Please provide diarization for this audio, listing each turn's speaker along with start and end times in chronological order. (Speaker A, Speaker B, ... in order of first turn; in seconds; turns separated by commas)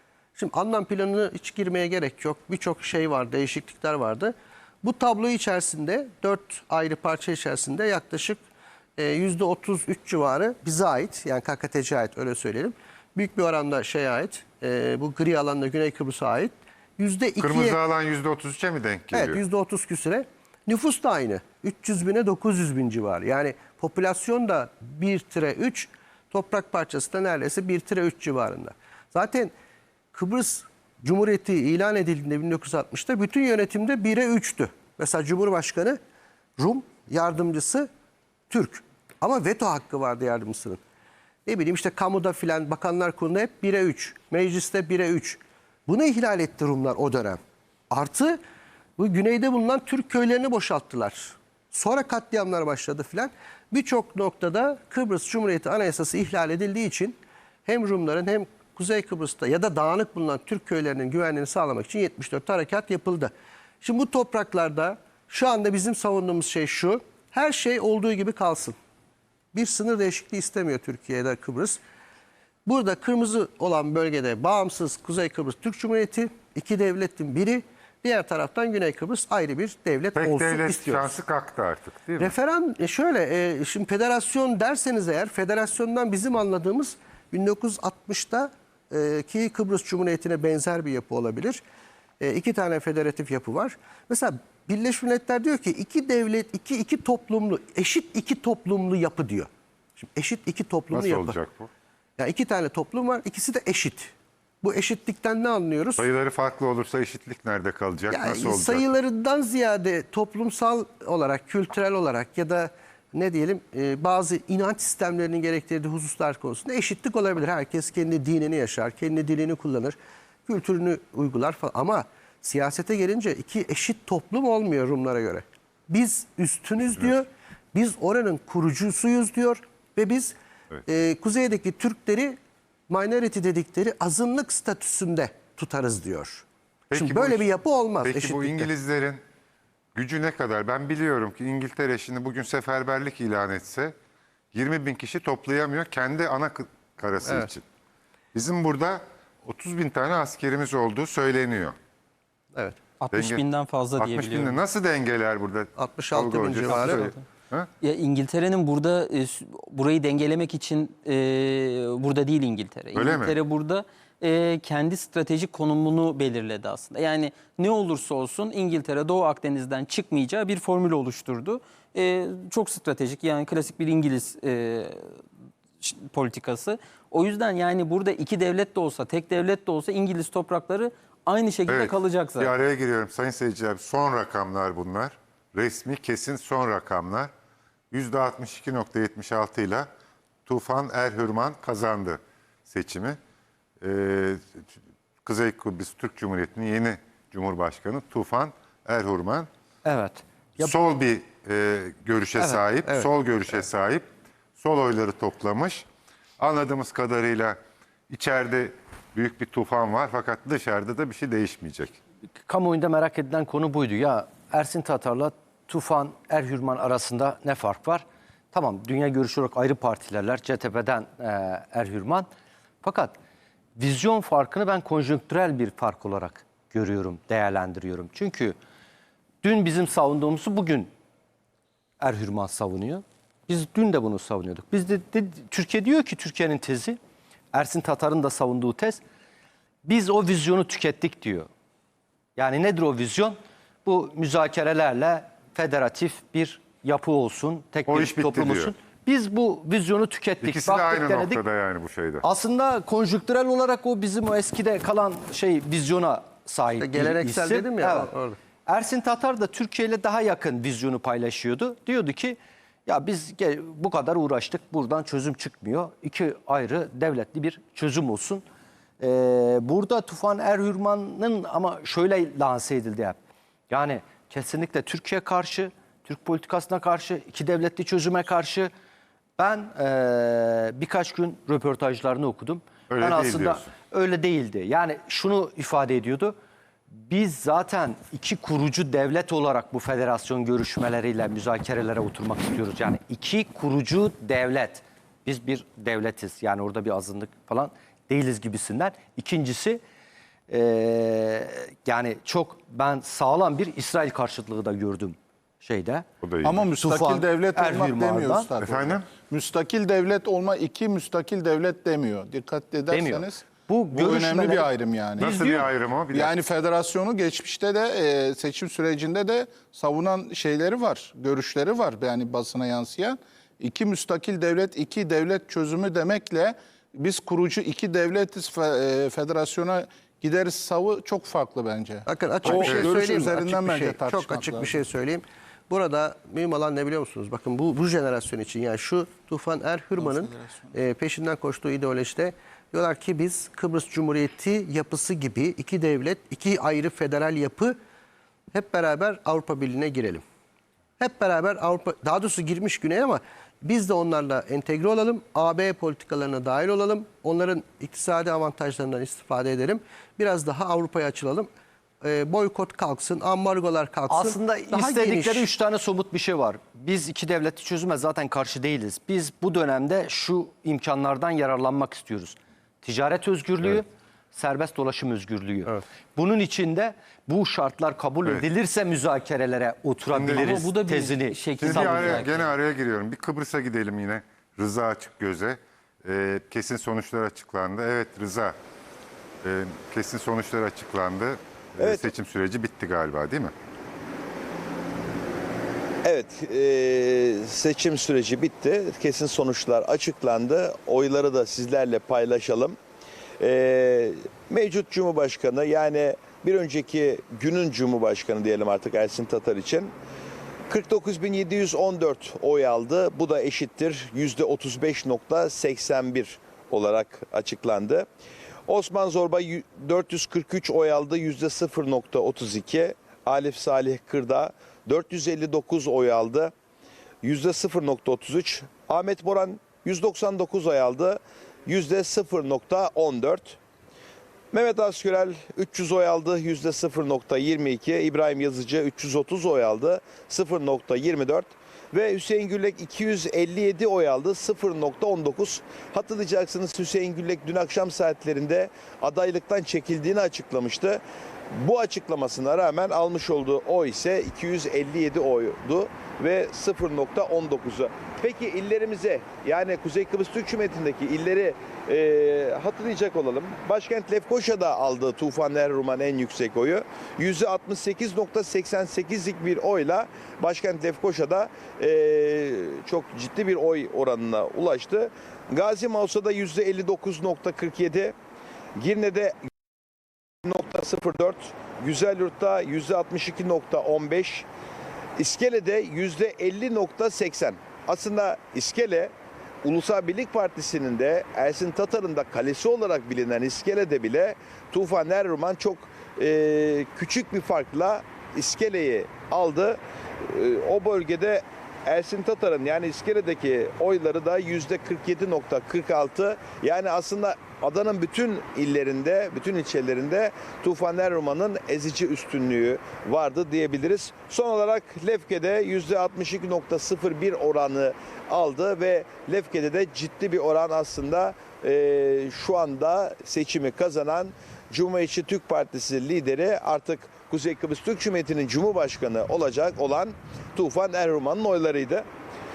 Speaker A: 0.4-8.4, Speaker A: 9.0-17.8, Speaker B: 17.4-19.4, Speaker A: 19.1-29.5, Speaker A: 30.1-36.0, Speaker A: 36.6-37.9, Speaker A: 38.5-40.8, Speaker A: 41.5-48.4, Speaker A: 49.0-63.3, Speaker A: 63.8-68.8, Speaker A: 69.5-71.8, Speaker A: 72.7-81.1, Speaker B: 80.1-82.3, Speaker A: 82.2-91.6, Speaker A: 92.2-101.4, Speaker B: 100.9-101.7, Speaker A: 102.2-106.0, Speaker B: 106.0-108.9, Speaker A: 108.1-120.0, Speaker A: 120.5-130.3, Speaker A: 130.9-132.4, Speaker A: 132.9-138.7, Speaker B: 136.9-137.5, Speaker B: 138.0-139.2, Speaker B: 139.9-143.9, Speaker B: 144.5-147.6, Speaker B: 148.3-151.8, Speaker C: 153.0-154.4, Speaker B: 153.1-153.4, Speaker B: 154.0-157.7, Speaker A: 155.8-157.1, Speaker C: 157.8-175.1, Speaker B: 162.9-163.4, Speaker C: 175.8-182.5, Speaker B: 181.7-187.3, Speaker B: 187.9-189.9, Speaker B: 190.5-193.2, Speaker B: 193.8-194.7, Speaker B: 195.2-199.5, Speaker D: 199.8-200.7, Speaker B: 200.6-205.9, Speaker D: 202.4-202.7, Speaker B: 206.4-207.6, Speaker B: 208.1-212.0, Speaker D: 212.5-222.3, Speaker D: 222.8-223.2, Speaker D: 223.8-228.6, Speaker D: 229.4-230.9, Speaker D: 232.0-237.0, Speaker D: 237.5-239.0, Speaker D: 239.8-241.5, Speaker D: 242.4-251.4, Speaker B: 247.9-248.7, Speaker B: 250.4-252.3, Speaker D: 252.2-258.1, Speaker A: 256.7-258.4, Speaker D: 258.7-268.4, Speaker D: 269.0-273.2, Speaker D: 273.7-278.7, Speaker D: 279.4-286.4, Speaker B: 282.9-283.7, Speaker D: 287.0-299.8, Speaker D: 300.5-306.1, Speaker B: 306.2-306.7, Speaker E: 306.4-334.8, Speaker D: 306.8-308.5, Speaker B: 308.6-309.1, Speaker D: 313.0-314.6, Speaker C: 314.2-314.6, Speaker B: 315.2-316.3, Speaker D: 315.3-315.6, Speaker A: 332.1-347.8, Speaker E: 340.0-340.8, Speaker A: 348.5-350.2, Speaker A: 351.0-361.5, Speaker A: 362.0-365.5, Speaker D: 364.1-382.1, Speaker B: 380.1-380.7, Speaker C: 380.3-382.5, Speaker B: 381.6-388.6, Speaker B: 389.4-393.5, Speaker F: 391.8-392.1, Speaker F: 396.0-402.8, Speaker F: 403.4-409.9, Speaker F: 410.7-418.1, Speaker F: 418.7-426.5, Speaker F: 427.2-433.6, Speaker F: 434.5-451.0, Speaker F: 451.5-478.1, Speaker F: 478.8-479.4, Speaker F: 480.4-484.5, Speaker F: 485.2-489.1, Speaker F: 489.6-532.1